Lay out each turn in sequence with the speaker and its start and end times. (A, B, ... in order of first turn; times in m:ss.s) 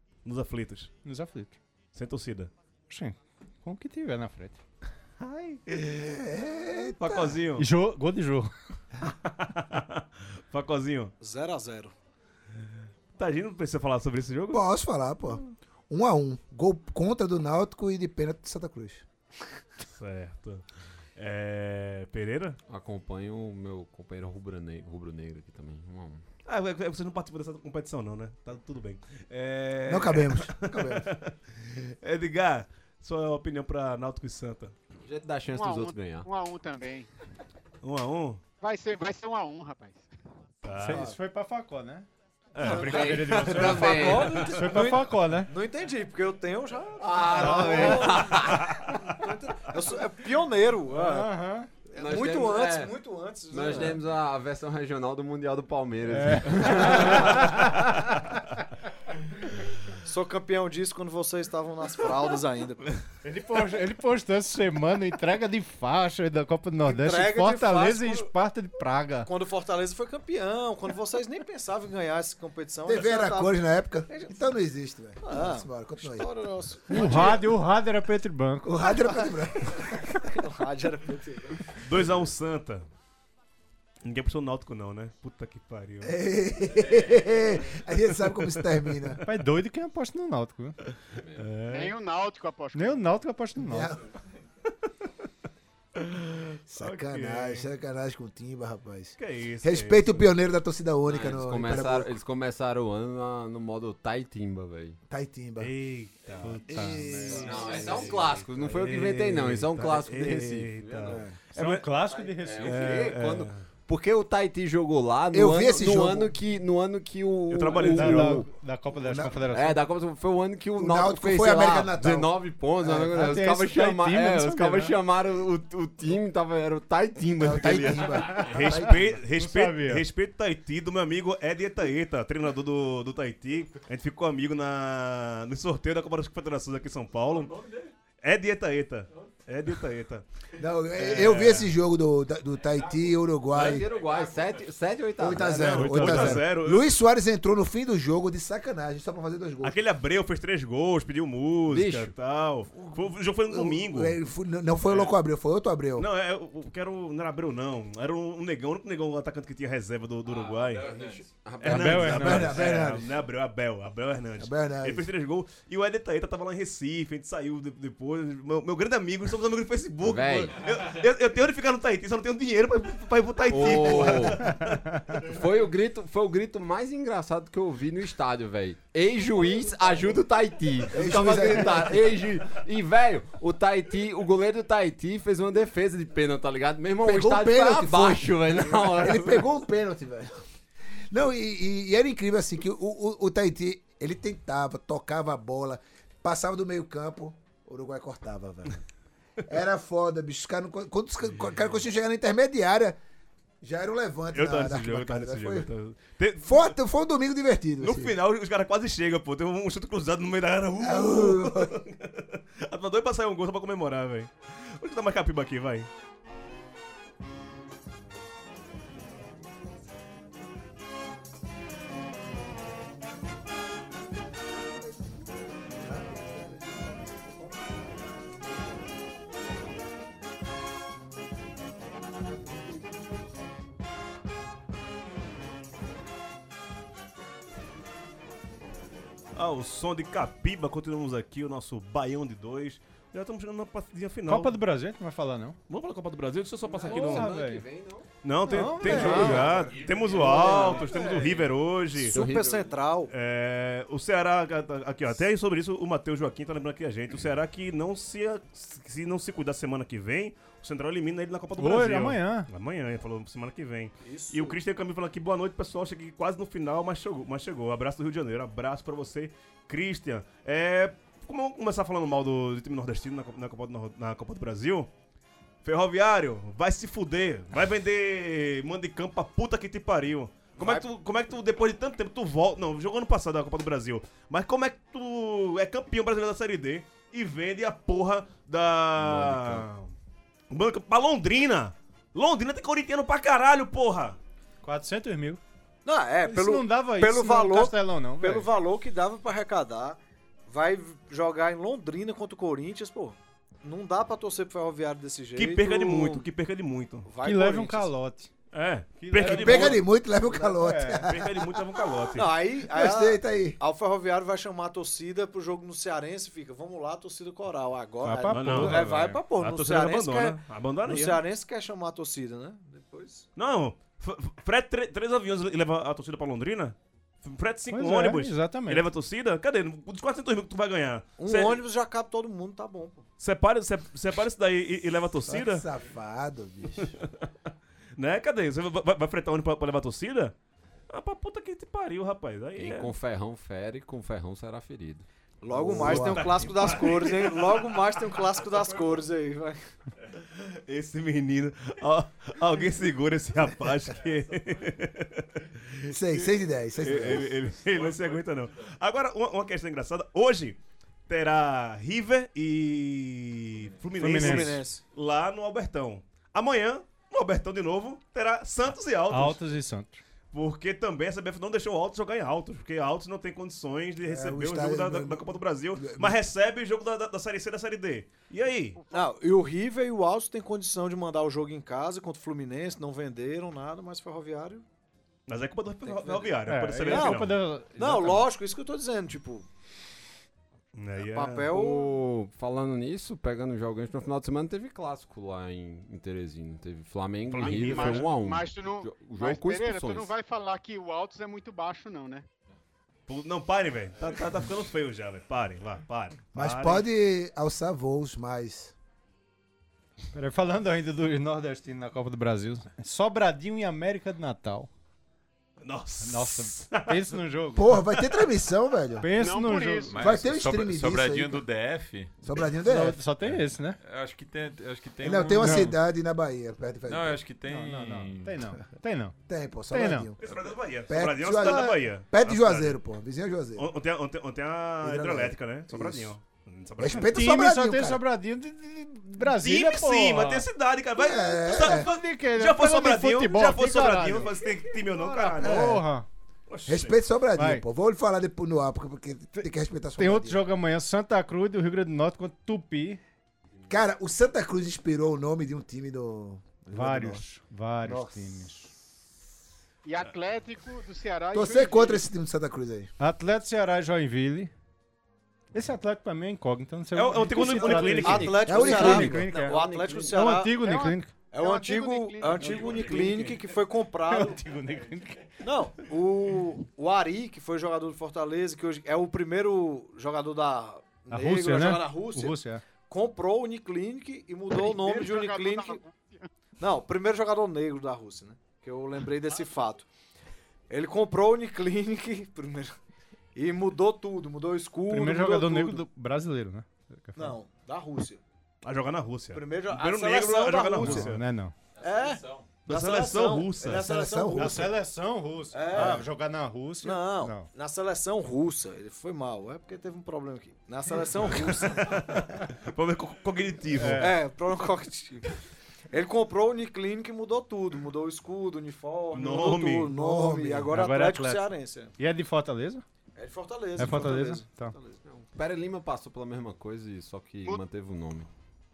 0:00.2-0:00.9 A
0:01.0-0:01.6 B
0:01.9-0:02.5 A
0:02.9-0:04.6 B
0:05.2-0:05.6 A
0:05.7-0:07.4 C
0:07.0-0:07.7 A
0:07.6-0:08.5 B
0:09.0-0:11.1 A
0:11.2-0:11.9 D
0:13.2-0:14.6 A
0:14.5-0:19.0 C
0:19.9-0:20.6 A
0:21.2-0:22.6 A
0:22.7-0:26.2 E
0:26.4-0:34.7 A
0:29.9-0:31.1 C
0:35.0-0:36.3 E
0:35.5-0:37.1 F
0:37.8-0:38.4 A
0:38.6-0:40.1 F
0:40.6-0:41.1 A
0:40.8-0:42.1 B
0:42.5-0:44.4 A
0:42.6-0:45.5 B
0:42.6-0:51.3 D
0:42.7-0:44.5 E
0:47.0-0:48.7 E
0:47.3-0:48.2 B
0:48.4-0:48.8 A
0:50.9-0:51.7 B
0:51.9-0:53.0 E
0:52.0-0:54.0 D
0:53.5-0:57.5 E
0:56.1-0:58.4 B
1:00.0-1:03.0 D
1:03.2-1:09.3 B
1:06.8-1:08.3 D
1:09.2-1:14.4 D
1:12.8-1:16.3 C
1:15.2-1:17.5 D
1:16.9-1:18.7 B
1:17.0-1:17.3 C
1:18.6-1:20.3 C
1:19.0-1:19.3 D
1:20.2-1:21.8 D
1:21.8-1:22.8 A
1:24.0-1:26.1 A
1:26.0-1:29.2 C
1:29.2-1:30.8 B
1:31.4-1:31.9 A
1:31.7-1:33.0 F
1:32.7-1:33.9 B
1:33.6-1:34.0 C
1:36.0-1:37.7 A
1:36.7-1:42.2 C
1:39.2-1:40.3 A
1:41.0-1:45.0 E
1:45.1-1:45.7 C
1:45.6-1:51.9 A
1:46.3-1:48.2 C
1:46.4-1:47.8 B
1:47.3-1:51.2 E
1:51.1-1:51.3 C
1:51.5-1:53.0 B
1:52.0-1:58.5 E
1:52.6-1:53.6 A
1:55.3-1:56.3 C
1:57.5-1:58.4 A
1:57.8-1:59.8 B
1:59.0-1:59.4 C
1:59.5-2:08.2 E
2:00.8-2:03.1 C
2:03.0-2:04.9 B
2:07.4-2:09.2 C
2:08.1-2:08.8 B
2:08.3-2:17.5 A
2:09.3-2:10.0 B
2:17.6-2:17.9 G
2:18.2-2:20.2 A
2:20.6-2:23.9 C
2:21.0-2:21.7 A
2:23.5-2:26.3 E
2:23.9-2:24.8 G
2:25.2-2:29.8 C
2:25.4-2:26.8 A
2:25.8-2:26.4 B
2:29.6-2:34.2 A
2:31.7-2:32.1 E
2:32.8-2:36.1 C
2:34.8-2:35.1 A
2:36.0-2:41.0 A
2:40.2-2:41.4 G
2:40.8-2:42.7 E
2:41.6-2:55.0 A
2:41.6-2:42.6 B
2:42.0-2:43.1 C
2:44.4-2:45.1 C
2:50.0-2:50.6 E
2:53.5-2:54.5 E
2:53.6-2:54.3 C
2:55.2-3:09.4 E
3:00.9-3:02.2 C
3:07.0-3:10.4 C
3:11.1-3:18.8 C
3:19.5-3:23.0 C
3:23.6-3:25.7 C
3:24.3-3:26.7 A
3:26.4-3:28.2 C
3:27.8-3:35.9 A
3:30.8-3:31.8 C
3:45.7-3:47.2 C
3:59.3-4:04.6 A
4:04.3-4:05.6 B
4:05.7-4:07.3 A
4:06.6-4:08.1 E
4:06.8-4:07.6 B
4:08.2-4:12.2 A
4:08.4-4:09.5 B
4:08.8-4:11.1 E
4:09.0-4:09.5 D
4:09.1-4:11.4 G
4:10.1-4:10.8 D
4:12.0-4:13.1 D
4:12.0-4:12.7 E
4:13.1-4:34.9 A
4:21.6-4:22.5 B
4:24.0-4:24.6 D
4:35.6-4:49.9 A
4:40.6-4:40.9 D
4:49.0-4:49.6 E
4:50.5-4:54.2 A
4:54.6-4:55.4 B
4:55.8-5:06.2 D
4:56.2-4:58.5 B
5:05.4-5:07.1 A
5:07.0-5:07.9 D
5:07.2-5:08.3 B
5:08.5-5:09.8 A
5:09.0-5:11.0 B
5:09.2-5:12.0 C
5:11.0-5:12.3 A
5:12.2-5:23.3 D
5:12.6-5:13.6 C
5:18.0-5:18.9 B
5:18.3-5:21.2 A
5:20.9-5:21.1 B
5:23.4-5:31.6 A
5:27.7-5:28.9 B
5:31.2-5:33.0 D
5:33.2-5:35.6 A
5:35.2-5:37.0 C
5:36.8-5:37.3 A
5:38.0-5:40.3 A
5:40.9-5:42.9 A
5:42.6-5:45.0 E
5:45.4-5:49.6 D
5:45.5-5:46.4 C
5:45.8-5:47.9 A
5:50.3-6:09.4 A
5:55.9-5:57.4 C
6:04.0-6:04.8 D
6:04.0-6:04.6 B
6:09.1-6:10.0 B
6:10.3-6:18.8 A
6:14.0-6:16.2 C
6:18.8-6:19.1 F
6:18.9-6:24.6 D
6:25.3-6:27.4 A
6:25.8-6:29.5 D
6:26.5-6:28.3 B
6:30.7-6:31.5 A
6:31.0-6:31.9 D
6:31.5-6:40.1 E
6:37.3-6:38.1 A
6:37.4-6:42.2 F
6:43.1-6:46.8 A
6:46.3-6:48.7 C
6:50.1-6:54.7 B
6:55.6-6:57.1 A
6:56.0-6:57.8 B
6:57.6-6:59.1 C
6:59.0-7:00.0 B
6:59.1-7:00.0 F
6:59.9-7:02.1 G
7:00.0-7:01.4 C
7:02.2-7:03.0 C
7:02.6-7:03.8 B
7:03.2-7:05.8 G
7:05.0-7:07.2 C
7:05.4-7:05.8 B
7:06.8-7:08.4 G
7:07.4-7:09.1 B
7:09.3-7:10.2 C
7:09.7-7:10.1 B
7:10.2-7:12.8 A
7:10.8-7:13.7 C
7:13.6-7:17.3 A
7:14.8-7:16.2 C
7:16.8-7:18.0 C
7:16.9-7:20.4 B
7:19.2-7:25.8 A
7:21.0-7:21.9 C
7:21.6-7:24.3 B
7:25.0-7:26.0 B
7:25.4-7:25.8 C
7:26.5-7:27.0 A
7:26.7-7:30.4 C
7:27.4-7:27.6 B
7:29.4-7:33.0 B
7:33.7-7:37.2 C
7:36.7-7:38.7 B
7:37.8-7:38.5 C
7:39.8-7:42.0 F
7:41.3-7:42.9 C
7:43.0-7:44.5 B
7:45.5-7:51.1 B
7:46.9-7:48.5 A
7:47.4-7:50.6 D
7:48.4-7:49.3 C
7:49.5-7:50.1 E
7:50.6-7:52.8 F
7:51.3-7:54.4 D
7:52.4-7:53.4 A
7:54.1-7:55.2 B
7:55.4-8:02.4 D
8:01.1-8:02.6 B
8:02.9-8:05.8 D
8:04.5-8:06.3 F
8:06.6-8:09.9 D
8:10.7-8:12.8 D
8:13.3-8:15.8 D
8:14.9-8:17.4 B
8:17.1-8:18.2 D
8:18.6-8:21.2 A
8:19.3-8:21.1 D
8:20.7-8:21.5 B
8:21.8-8:22.5 G
8:21.8-8:24.8 D
8:22.6-8:23.9 A
8:23.6-8:24.7 C
8:24.3-8:27.5 B
8:25.5-8:26.1 D
8:25.7-8:26.0 A
8:26.8-8:32.2 D
8:31.2-8:34.1 A
8:33.7-8:34.2 B
8:34.0-8:35.3 D
8:35.9-8:41.9 D
8:39.1-8:39.9 A
8:39.4-8:40.7 C
8:40.7-8:41.4 B
8:42.0-8:42.8 B
8:43.1-8:45.0 D
8:43.8-8:44.7 B
8:45.1-8:48.3 E